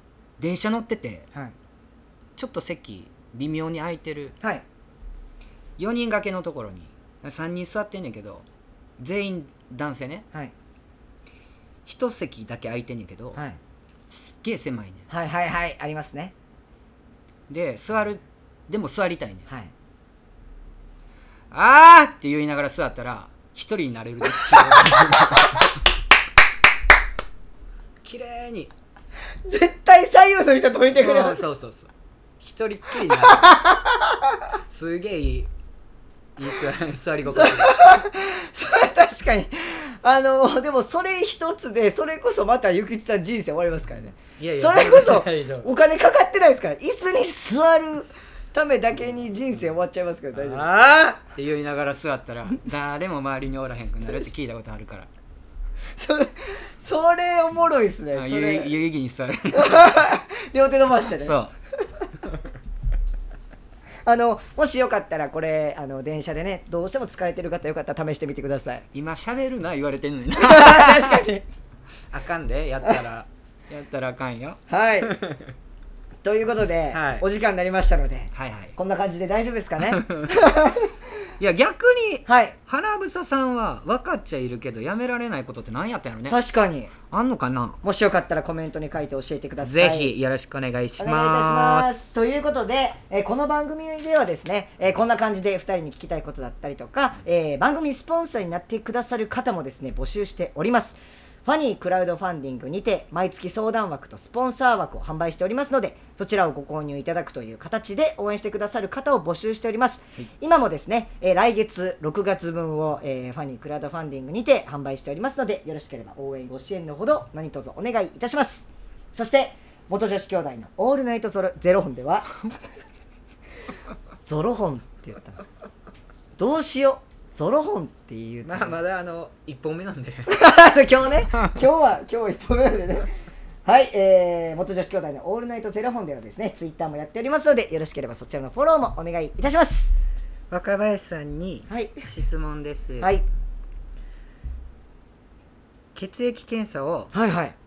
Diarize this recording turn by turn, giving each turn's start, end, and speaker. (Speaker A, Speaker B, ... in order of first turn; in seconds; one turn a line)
Speaker A: 0.4-1.3
Speaker A: 2.4-4.4
Speaker A: 5.8-8.4
Speaker A: 9.0-10.3
Speaker A: 11.9-13.4
Speaker B: 13.3-13.6
Speaker A: 14.1-15.1
Speaker B: 15.1-16.3
Speaker A: 17.5-19.5
Speaker A: 21.5-25.6
Speaker A: 28.0-28.7
Speaker B: 29.5-31.4
Speaker A: 30.9-33.6
Speaker B: 33.4-34.0
Speaker A: 34.7-35.5
Speaker A: 36.4-38.0
Speaker B: 37.2-51.0
Speaker A: 44.4-45.7
Speaker A: 50.3-55.1
Speaker B: 56.0-58.7
Speaker A: 58.1-60.1
Speaker B: 59.5-61.4
Speaker A: 61.2-61.5
Speaker B: 64.1-68.9
Speaker A: 68.9-71.2
Speaker B: 70.4-71.4
Speaker A: 72.1-75.4
Speaker B: 74.7-75.2
Speaker B: 76.2-80.9
Speaker A: 76.9-77.2
Speaker A: 78.3-78.8
Speaker A: 79.9-80.5
Speaker A: 81.4-86.4
Speaker B: 82.3-82.6
Speaker B: 86.3-86.9
Speaker A: 87.1-87.8
Speaker B: 87.8-90.1
Speaker A: 89.6-92.0
Speaker B: 91.0-122.5
Speaker B: 124.2-125.5
Speaker B: 126.4-128.8
Speaker A: 128.4-130.4
Speaker B: 130.3-133.1
Speaker B: 133.7-139.9
Speaker A: 140.5-143.2
Speaker B: 141.7-142.1
Speaker B: 143.0-143.2
Speaker A: 145.9-147.1
Speaker B: 147.1-147.6